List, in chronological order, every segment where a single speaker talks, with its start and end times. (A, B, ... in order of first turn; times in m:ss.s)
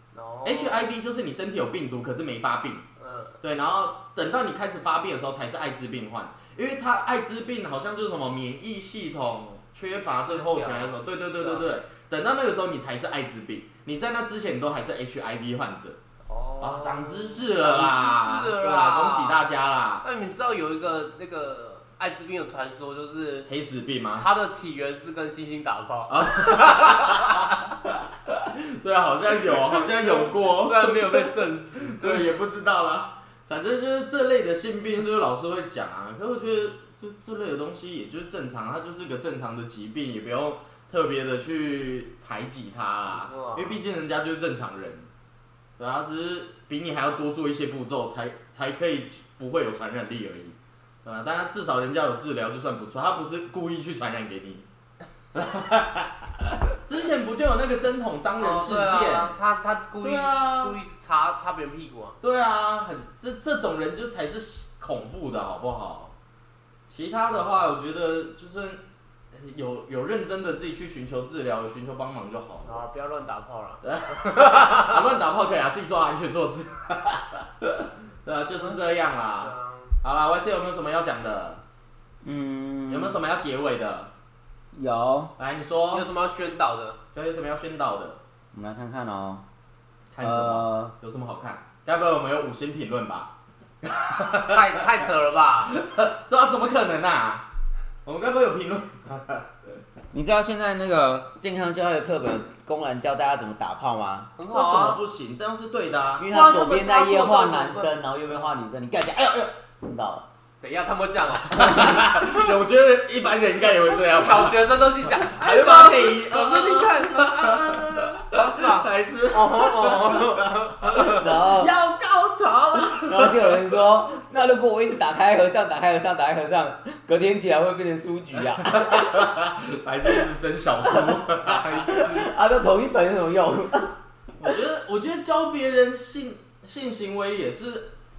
0:00.1-0:00.8 A
0:00.4-0:02.8 B
0:03.0-0:03.4 A
0:03.4-0:16.0 B
0:09.9-0:11.7 A
0:16.2-0:19.4 A
0:16.6-0:20.0 B
0:20.0-0:23.5 A
0:23.5-0:24.3 B
0:24.1-0:27.2 A
0:26.1-0:45.1 B
0:29.8-0:32.4 A
0:43.1-0:43.8 A
0:45.8-0:54.6 B
0:55.3-0:59.3 B
0:58.4-1:02.2 A
1:00.0-1:00.8 B
1:02.2-1:06.1 B
1:06.9-1:08.8 B
1:09.3-1:12.8 B
1:12.6-1:15.0 A
1:13.8-1:21.6 B
1:19.4-1:20.0 A
1:22.2-1:23.2 C
1:22.9-1:24.1 B
1:24.7-1:25.3 C
1:25.4-1:26.1 B
1:25.9-1:27.0 A
1:27.1-1:28.2 B
1:28.5-1:29.4 C
1:30.1-1:33.3 B
1:30.2-1:30.9 C
1:33.8-1:34.9 B
1:34.3-1:35.7 A
1:35.6-1:37.4 B
1:38.0-1:39.5 B
1:40.1-1:44.3 C
1:44.4-1:45.0 A
1:44.5-1:46.3 B
1:46.2-1:50.2 C
1:46.3-1:48.4 A
1:50.6-1:52.1 A
1:51.5-2:03.6 B
1:54.0-2:01.3 A
2:01.0-2:01.7 C
2:03.0-2:08.8 C
2:08.6-2:11.8 B
2:11.4-2:12.3 A
2:11.9-2:13.9 C
2:14.4-2:17.9 B